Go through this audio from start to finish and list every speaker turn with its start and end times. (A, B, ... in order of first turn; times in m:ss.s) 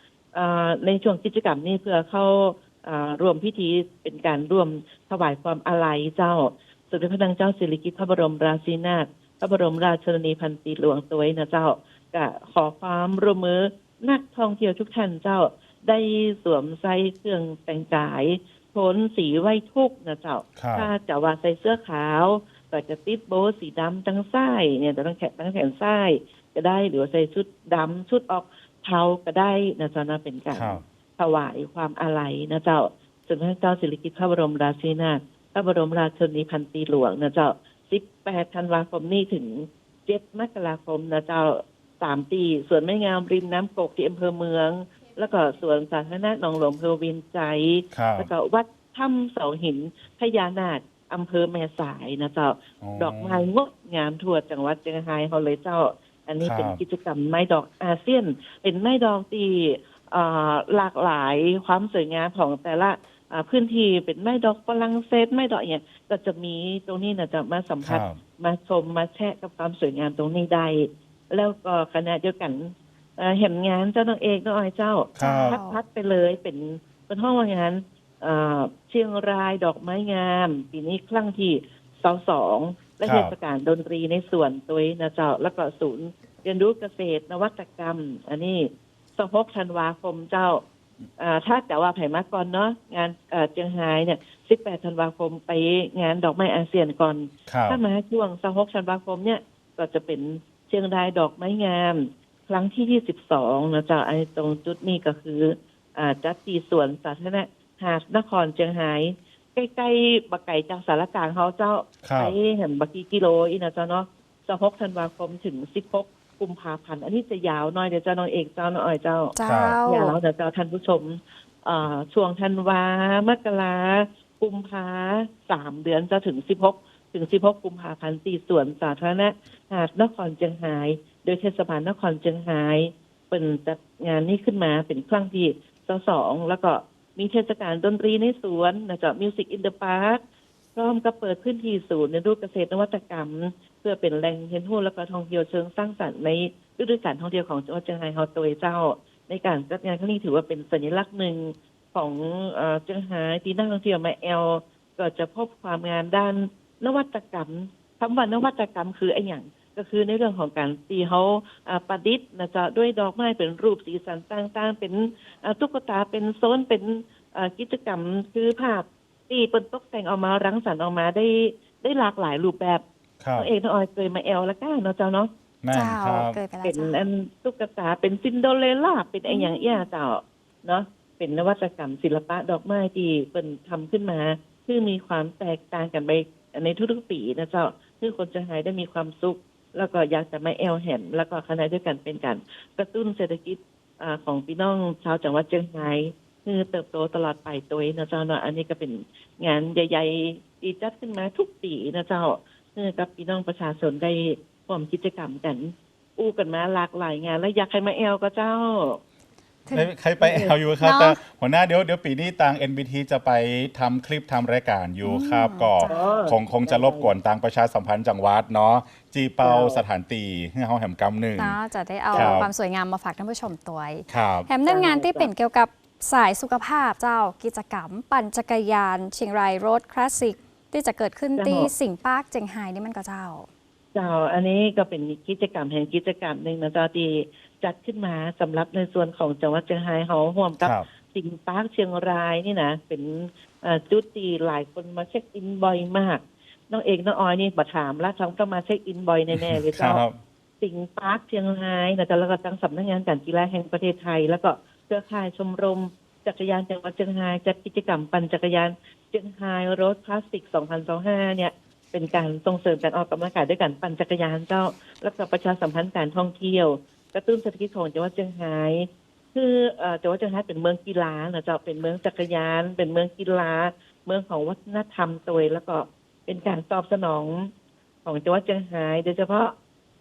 0:00.3-1:30.6 A
0:20.6-0:20.9 B
0:30.6-0:30.8 B
0:47.9-0:48.3 B
0:52.8-0:53.5 B
0:56.4-0:56.8 B
1:07.8-1:08.2 B
1:15.2-1:15.6 B
1:15.2-1:15.8 C
1:23.0-1:23.3 B
1:31.2-1:59.4 A
1:37.5-1:37.8 B
1:52.0-1:52.4 B
1:59.4-2:00.2 C
1:59.4-1:59.8 B
1:59.9-2:20.2 A
2:20.8-2:52.8 A
2:53.2-2:53.5 B
2:53.4-2:55.3 A
2:55.6-2:56.4 B
2:55.7-2:57.0 C
2:56.6-3:29.0 A
2:59.3-2:59.9 C
3:29.6-3:29.9 C
3:29.7-3:41.6 B
3:30.2-3:30.5 A
3:30.8-3:31.2 C
3:35.0-3:36.1 C
3:35.8-3:37.1 A
3:39.4-3:39.8 A
3:41.4-3:53.5 C
3:42.1-3:42.4 A
3:42.1-3:42.5 B
3:44.1-3:44.5 B
3:44.7-3:45.3 A
3:51.4-3:51.7 A
3:53.9-4:10.0 A
4:00.6-4:00.9 B
4:09.3-4:10.2 B
4:10.6-4:37.5 A
4:38.0-4:39.6 A